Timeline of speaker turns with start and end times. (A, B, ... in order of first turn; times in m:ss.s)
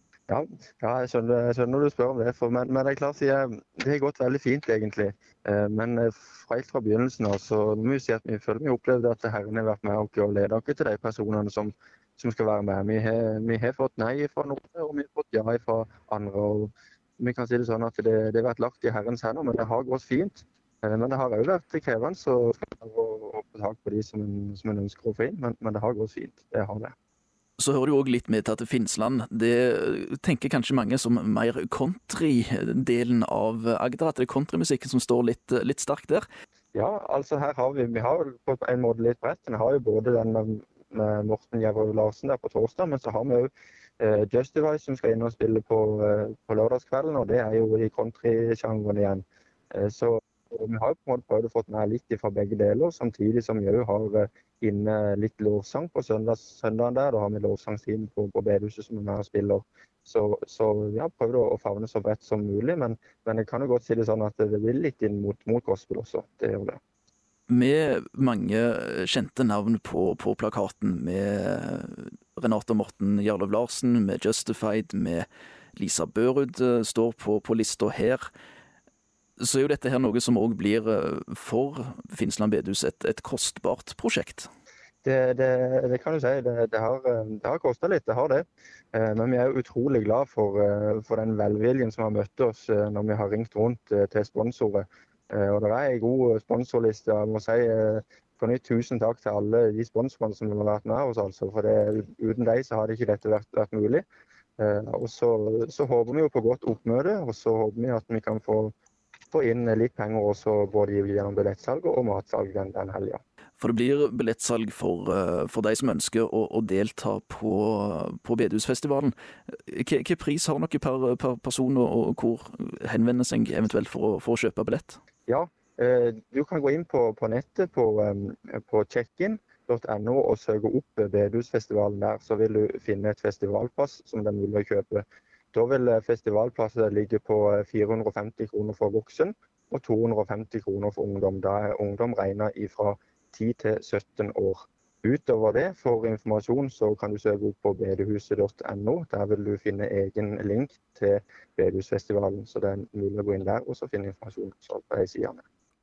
0:00.3-0:26.9 A
0:27.6-0:36.2 B
0:36.7-1:06.8 A
1:07.5-1:18.3 B
1:19.4-1:24.5 B
1:25.0-1:44.0 A
1:44.6-1:48.7 A
1:49.3-1:53.2 A
1:53.6-2:05.0 B
2:05.3-2:35.4 A